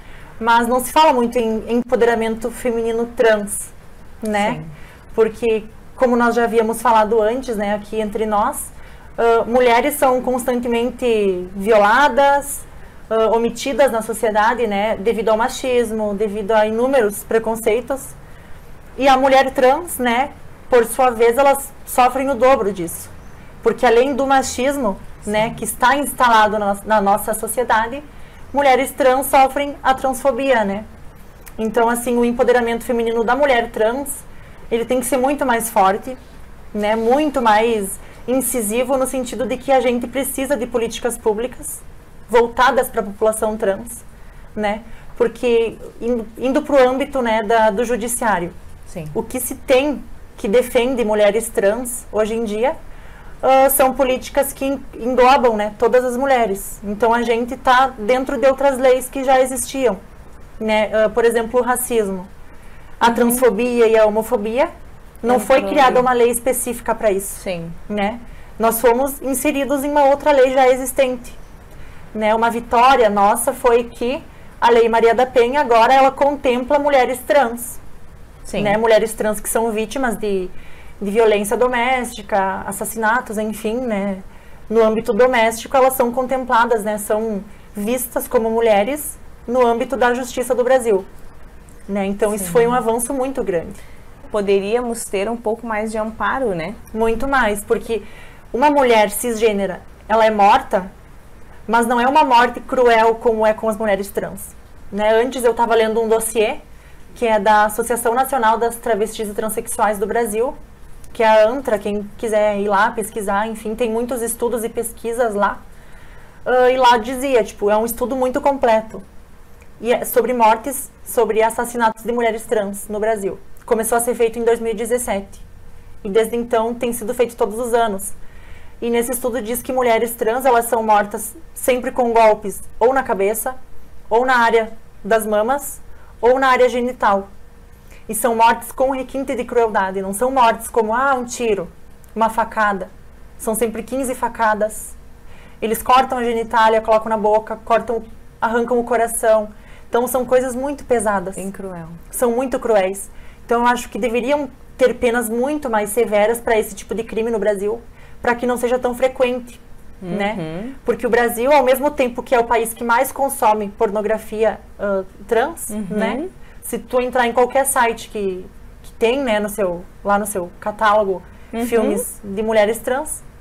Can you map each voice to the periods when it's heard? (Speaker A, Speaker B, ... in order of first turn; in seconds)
Speaker A: 0.4-4.6, 5.1-18.1, 19.0-23.1, 23.6-30.9, 31.6-36.2, 36.7-44.0, 44.5-48.5, 49.1-52.8, 53.4-60.0, 60.6-62.3, 63.0-64.7, 65.2-71.4, 72.1-77.8, 78.6-91.1, 91.9-93.8, 96.9-100.9, 101.7-106.6, 107.2-110.6, 111.1-115.6, 116.5-119.0, 119.8-125.4, 126.0-128.2, 128.8-133.6, 134.1-137.3, 138.1-144.9, 145.6-151.5, 152.1-173.2
Speaker B: 4.4-4.7, 48.9-49.1, 63.0-63.4, 65.3-66.0, 67.4-67.8, 78.5-78.8, 92.4-92.7, 94.3-96.8, 151.4-152.0, 160.0-160.8, 165.7-166.3, 171.5-172.0